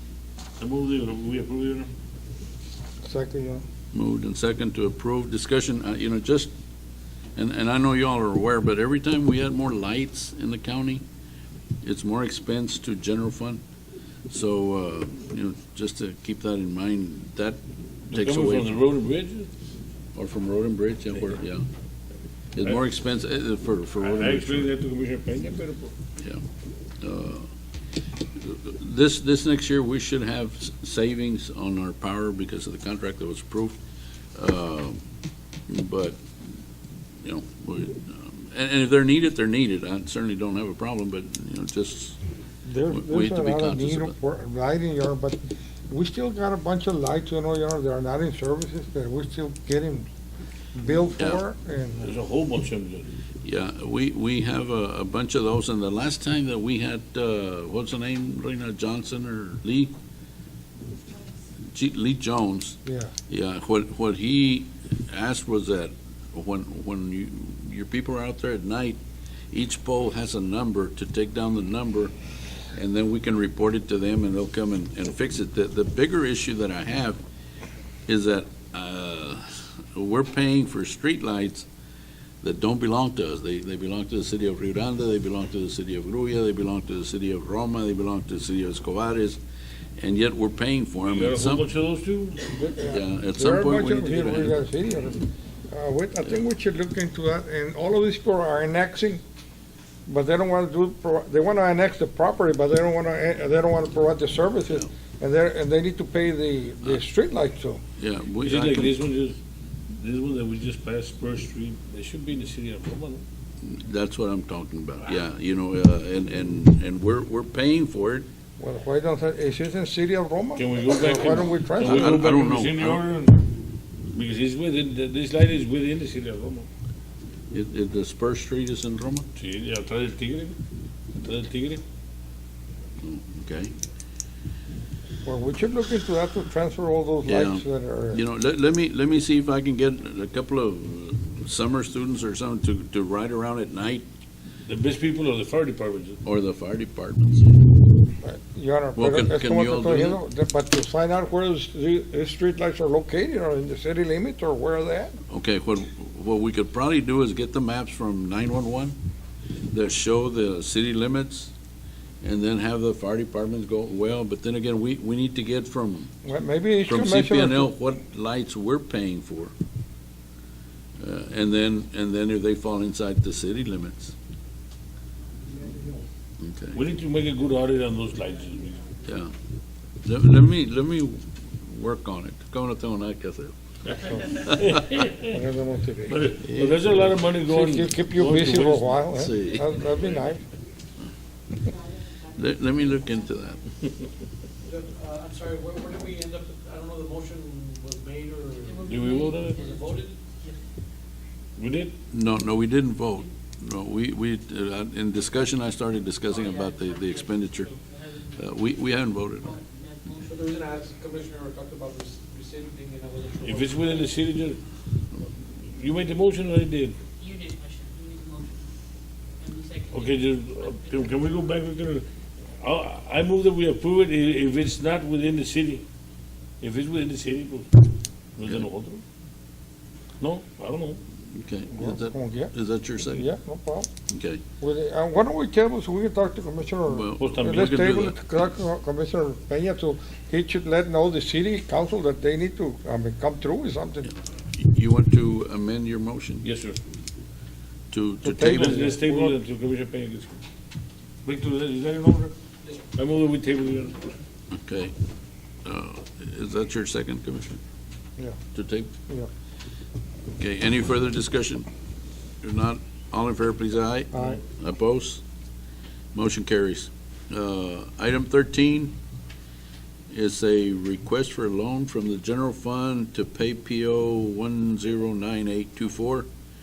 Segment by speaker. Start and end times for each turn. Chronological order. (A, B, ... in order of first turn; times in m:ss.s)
0:00.6-0:01.9 A
0:03.0-0:03.6 B
0:03.9-0:06.5 C
0:07.4-0:11.0 C
0:11.8-0:13.6 C
0:14.3-0:18.8 C
0:18.1-0:19.5 A
0:20.1-0:21.6 C
0:22.5-0:24.7 C
0:24.0-0:25.9 A
0:27.0-0:27.5 C
0:28.4-0:33.8 C
0:34.3-0:35.0 C
0:35.7-0:36.2 C
0:37.2-0:42.2 C
0:42.6-0:50.1 B
0:42.9-0:44.1 C
0:50.8-0:52.1 B
0:52.0-0:53.1 A
0:53.4-0:59.9 C
1:01.6-1:09.0 C
1:02.8-1:03.1 B
1:09.5-1:12.1 C
1:12.7-1:17.2 C
1:18.1-1:21.7 C
1:22.4-1:29.4 C
1:30.0-1:31.6 C
1:31.1-1:32.7 A
1:32.7-1:39.2 B
1:32.8-1:34.5 C
1:40.1-1:47.8 B
1:48.0-1:49.0 C
1:48.4-1:49.4 A
1:49.9-1:53.2 A
1:53.6-1:58.3 C
1:58.6-2:02.3 B
2:00.6-2:03.5 A
2:01.8-2:03.0 C
2:04.1-2:06.7 A
2:07.5-2:09.3 C
2:09.4-2:10.6 A
2:11.1-2:11.8 A
2:13.0-2:13.7 C
2:15.2-2:18.2 B
2:17.2-2:24.0 C
2:24.6-2:26.2 A
2:26.2-2:27.6 C
2:28.2-2:35.2 B
2:29.0-2:30.2 C
2:35.3-2:39.0 C
2:39.7-2:41.5 C
2:42.2-2:46.1 C
2:46.2-2:47.7 B
2:46.8-2:49.5 C
2:51.0-2:54.1 C
2:56.4-2:56.8 C
2:56.7-2:58.8 A
2:59.0-2:59.3 C
3:00.0-3:03.5 C
3:04.0-3:04.3 B
3:04.1-3:04.9 C
3:04.6-3:05.4 A
3:05.2-3:06.3 B
3:06.1-3:09.0 A
3:06.4-3:07.0 C
3:07.5-3:10.4 B
3:09.1-3:09.7 C
3:12.3-3:13.6 C
3:14.7-3:18.9 D
3:18.6-3:20.6 E
3:18.8-3:19.6 A
3:19.6-3:20.1 D
3:21.6-3:21.9 A
3:22.1-3:27.7 C
3:26.3-3:28.4 E
3:28.4-3:29.5 C
3:29.4-3:30.7 E
3:30.2-3:34.0 D
3:33.4-3:34.6 A
3:35.6-3:37.0 A
3:37.1-3:38.6 E
3:39.4-3:41.4 E
3:39.9-3:42.0 A
3:42.6-3:45.8 A
3:46.6-3:47.8 A
3:48.4-3:49.0 A
3:48.4-3:48.7 C
3:50.2-3:51.0 A
3:51.3-3:53.3 C
3:51.8-3:52.5 B
3:53.1-3:53.9 B
3:54.1-3:54.4 C
3:54.6-4:04.1 B
3:56.9-3:58.2 C
3:57.2-3:57.7 A
4:04.0-4:06.4 C
4:06.4-4:06.8 A
4:07.9-4:08.9 C
4:08.2-4:09.4 B
4:08.5-4:10.3 A
4:11.2-4:12.3 A
4:12.9-4:14.0 A
4:14.5-4:14.9 C
4:15.6-4:17.6 C
4:18.5-4:18.9 C
4:20.3-4:21.7 C
4:22.4-4:25.2 C
4:24.1-4:24.4 B
4:26.1-4:28.9 C
4:30.1-4:36.3 C